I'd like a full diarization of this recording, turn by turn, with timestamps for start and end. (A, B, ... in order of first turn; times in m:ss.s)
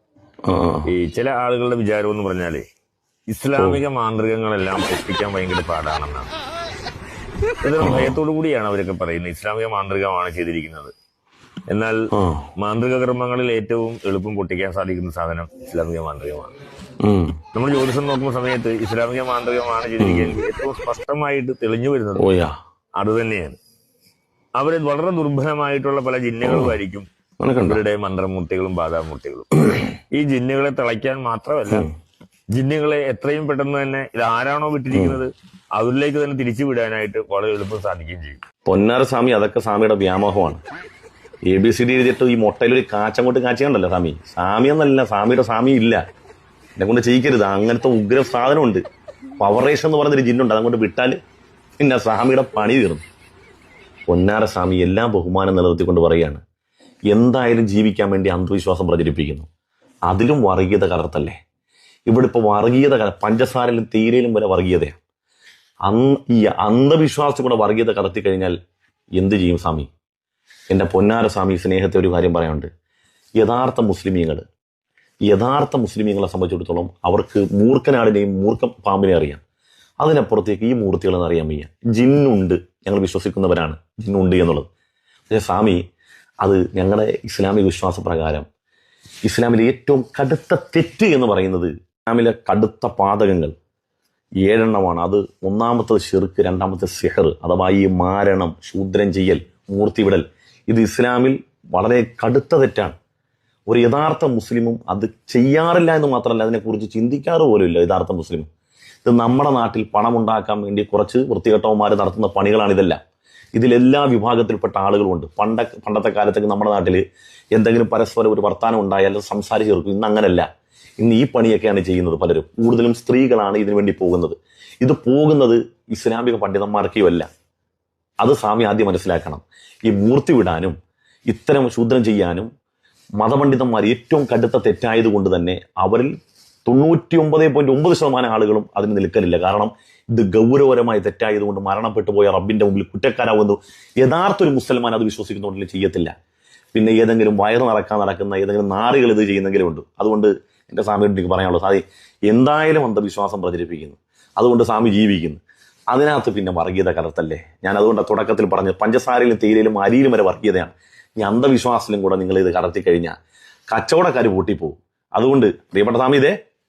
0:00.4-0:00.9 A
0:00.9-0:02.6 B
0:03.3-0:06.3 B
0:03.6-0:03.8 A
0:07.6-0:10.9 B
0:07.8-0:08.2 A
0:11.7-0:12.0 B
0:12.1-0:12.5 A
0:12.6-0:16.5 B
0:17.0-0:17.4 A
0:17.5-0:22.3 B
0:20.0-0:20.4 A
0:22.2-0:22.5 A
0:23.0-0:23.5 B
0:24.6-0:27.0 B
0:26.4-0:26.8 A
0:27.4-0:27.8 A
0:27.6-0:29.5 B
0:30.1-0:31.9 B
0:32.5-0:38.4 B
0:34.9-0:35.2 A
0:38.6-0:40.6 A
0:41.5-0:46.0 A
0:46.8-0:48.8 A
0:49.4-0:51.2 A
0:51.8-0:53.0 A
0:54.1-0:56.4 A
0:57.1-0:59.5 A
1:00.1-1:01.4 A
1:02.1-1:05.0 A
1:05.9-1:08.5 A
1:09.2-1:09.9 A
1:10.7-1:12.7 A
1:13.4-1:14.4 A
1:15.3-1:19.4 A
1:20.0-1:24.6 A
1:25.3-1:25.8 A
1:26.4-1:28.4 A
1:29.2-1:33.5 A
1:34.4-1:43.0 A
1:43.7-1:48.5 A
1:49.0-1:53.0 A
1:53.5-1:57.0 A
1:57.5-2:00.5 A
2:01.0-2:07.3 A
2:08.2-2:10.7 A
2:11.3-2:12.5 A
2:13.2-2:16.1 A
2:16.6-2:26.1 A
2:26.7-2:43.1 A
2:43.7-2:46.4 A